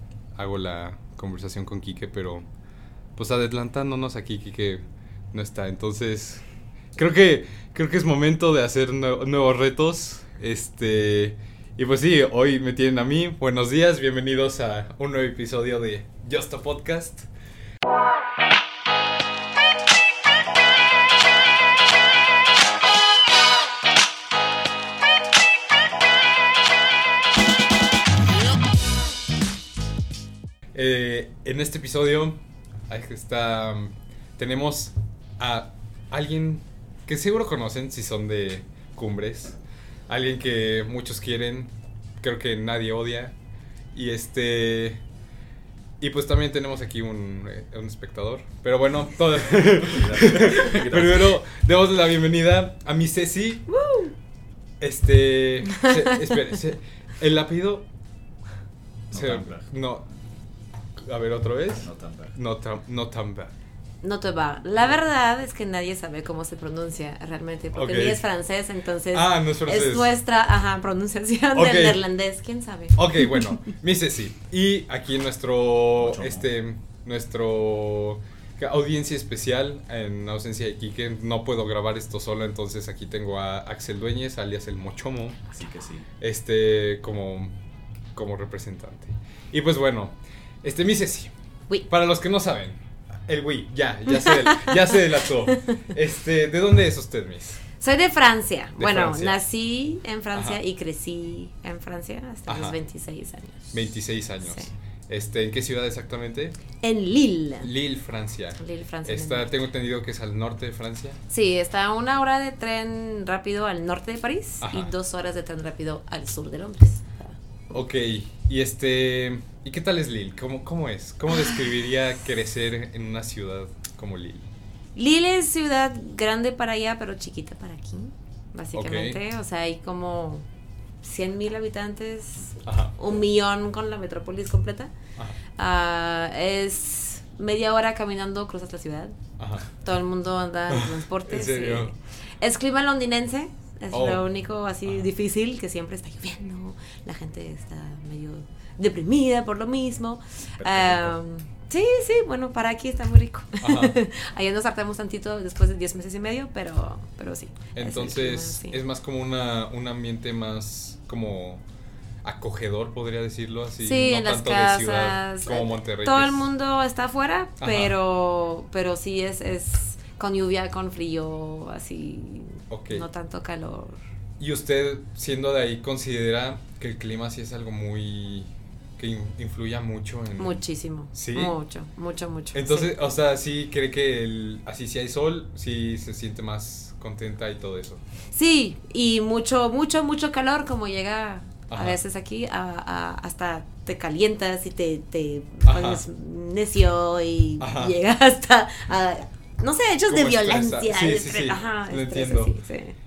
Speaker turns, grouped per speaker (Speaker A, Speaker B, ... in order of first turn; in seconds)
Speaker A: 0.3-2.5, 3.2-6.4, 7.0-17.3, 30.8-39.6, 40.1-43.4, 43.9-45.0, 46.0-53.7, 54.8-57.9, 59.1-60.1, 61.0-63.5, 67.7-68.2, 69.1-70.2, 71.5-72.0, 73.0-85.4, 86.2-87.5, 88.2-91.3, 91.9-97.6, 98.8-99.4, 100.3-100.6, 102.5-102.8, 103.7-106.6, 107.6-111.2, 114.6-114.9, 117.7-124.5, 128.7-129.2, 132.6-133.0, 139.4-139.7, 140.7-141.9, 143.9-144.2, 153.6-154.0, 157.8-161.6, 162.2-166.5, 167.6-167.9, 172.7-173.1, 174.4-180.6, 181.1-181.6, 182.5-188.0, 191.7-192.0, 195.7-196.0, 197.6-197.9, 200.1-202.5
Speaker B: 49.8-51.3, 59.1-59.7, 61.8-62.4, 76.0-76.5, 85.5-86.1, 150.6-151.2
Speaker C: 53.7-54.1, 64.0-73.5, 94.2-95.0, 97.8-103.7, 106.8-107.7, 108.6-109.5, 111.3-117.8, 125.0-130.5, 131.0-134.9, 135.6-139.2, 139.8-158.8, 163.8-174.0, 180.4-182.9, 188.3-203.0